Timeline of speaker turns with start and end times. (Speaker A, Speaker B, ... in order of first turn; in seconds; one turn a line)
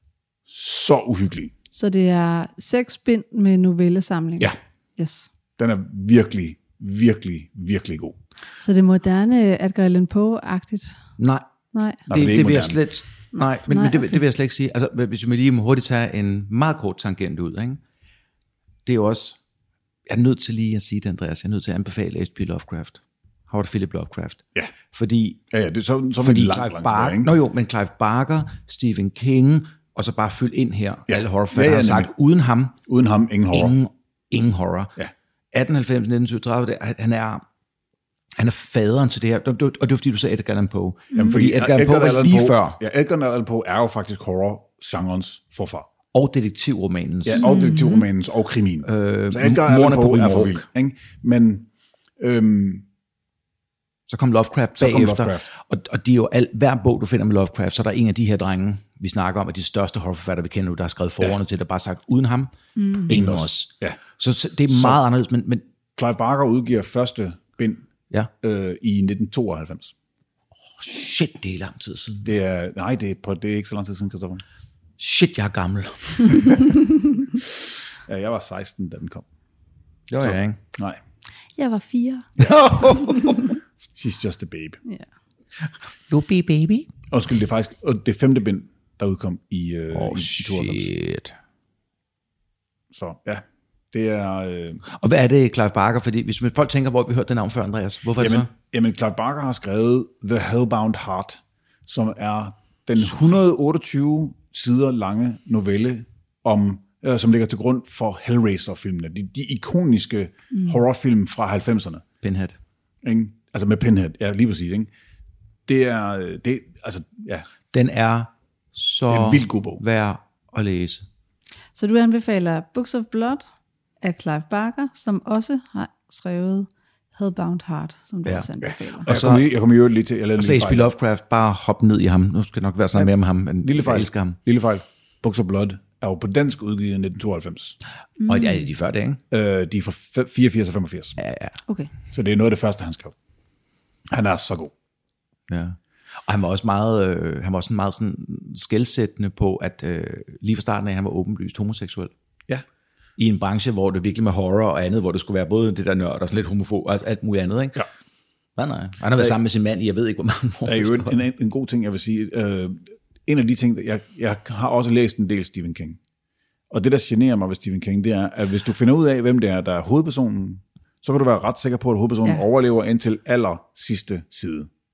Speaker A: 0.5-1.5
Speaker B: 1.7-5.3
Speaker A: 5.6-8.2
Speaker B: 8.6-11.0
Speaker C: 11.2-11.5
Speaker B: 11.7-12.0
Speaker A: 12.1-12.8
Speaker C: 12.1-17.8
Speaker B: 13.3-14.2
Speaker C: 18.9-19.4
Speaker C: 20.1-25.4
Speaker A: 25.5-27.3
Speaker C: 26.2-32.8
Speaker A: 31.1-32.1
Speaker A: 32.9-33.7
Speaker C: 33.5-34.9
Speaker C: 35.5-37.5
Speaker C: 38.4-42.8
Speaker B: 41.1-41.4
Speaker A: 41.1-45.9
Speaker C: 46.1-47.5
Speaker A: 47.2-51.7
Speaker B: 47.3-48.1
Speaker C: 48.8-50.6
Speaker A: 52.2-52.9
Speaker C: 54.1-62.5
Speaker A: 54.8-55.5
Speaker B: 62.8-63.1
Speaker C: 63.1-65.6
Speaker A: 63.1-64.0
Speaker A: 64.7-65.0
Speaker A: 66.0-67.9
Speaker A: 68.4-69.9
Speaker C: 70.7-72.3
Speaker A: 72.2-74.4
Speaker C: 75.0-76.8
Speaker A: 78.0-79.2
Speaker C: 80.1-80.6
Speaker A: 80.2-81.0
Speaker B: 81.6-82.3
Speaker A: 82.4-83.0
Speaker C: 82.4-83.5
Speaker B: 83.1-83.4
Speaker A: 84.0-84.8
Speaker C: 86.1-86.9
Speaker A: 87.1-90.9
Speaker C: 89.9-91.3
Speaker A: 92.9-94.8
Speaker C: 94.9-98.5
Speaker A: 98.2-112.0
Speaker B: 110.5-110.8
Speaker C: 112.2-112.6
Speaker A: 113.0-114.9
Speaker A: 115.7-117.5
Speaker C: 117.7-121.0
Speaker A: 119.1-119.8
Speaker B: 121.7-123.4
Speaker B: 124.0-129.1
Speaker C: 129.0-129.5
Speaker A: 129.1-130.9
Speaker C: 130.4-134.4
Speaker A: 132.9-137.8
Speaker B: 138.2-138.7
Speaker C: 138.3-139.2
Speaker A: 139.3-141.2
Speaker C: 141.2-141.6
Speaker A: 142.1-143.1
Speaker A: 144.1-144.7
Speaker C: 145.5-152.1
Speaker C: 153.2-157.8
Speaker C: 158.6-161.2
Speaker A: 160.6-166.0
Speaker A: 166.7-174.7